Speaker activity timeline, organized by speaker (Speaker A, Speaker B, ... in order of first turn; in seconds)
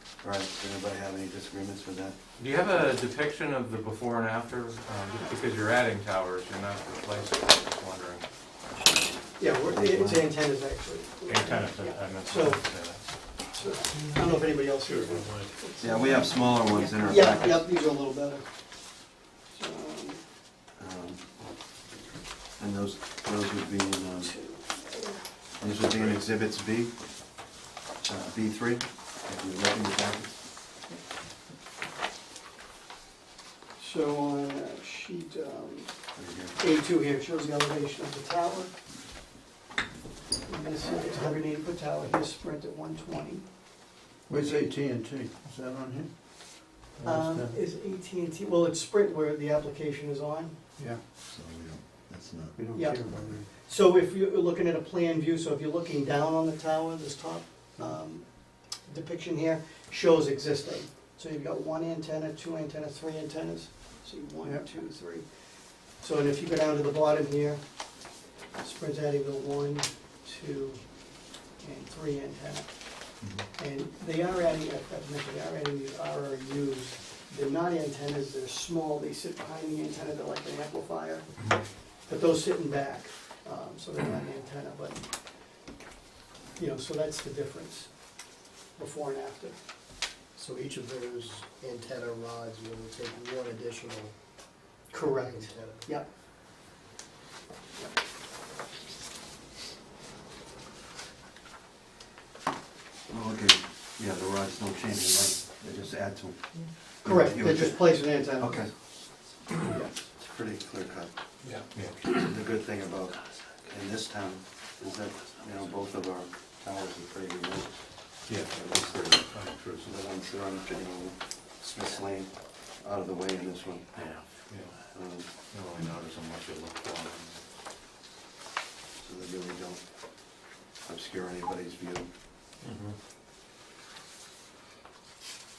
Speaker A: 0.2-2.3, 9.7-10.3, 15.8-17.7, 20.8-21.5, 22.6-24.4, 25.6-30.4, 36.1-36.6, 51.2-52.5, 103.1-108.7, 110.0-111.2, 112.0-125.3, 129.0-132.1
Speaker B: 2.4-8.5, 11.5-13.0, 124.5-124.8, 125.3-127.4
Speaker C: 8.8-20.2, 24.2-25.3, 33.8-38.7, 40.5-43.5, 47.0-50.6, 52.7-85.7, 86.6-89.6, 94.9-96.1, 107.0-108.8, 109.7-109.9
Speaker D: 11.3-13.1, 13.9-15.7, 111.4-112.1, 118.3-119.9, 132.6-132.9
Speaker E: 44.3-47.6, 50.8-51.0, 52.6-53.5
Speaker F: 90.3-94.2, 95.0-95.9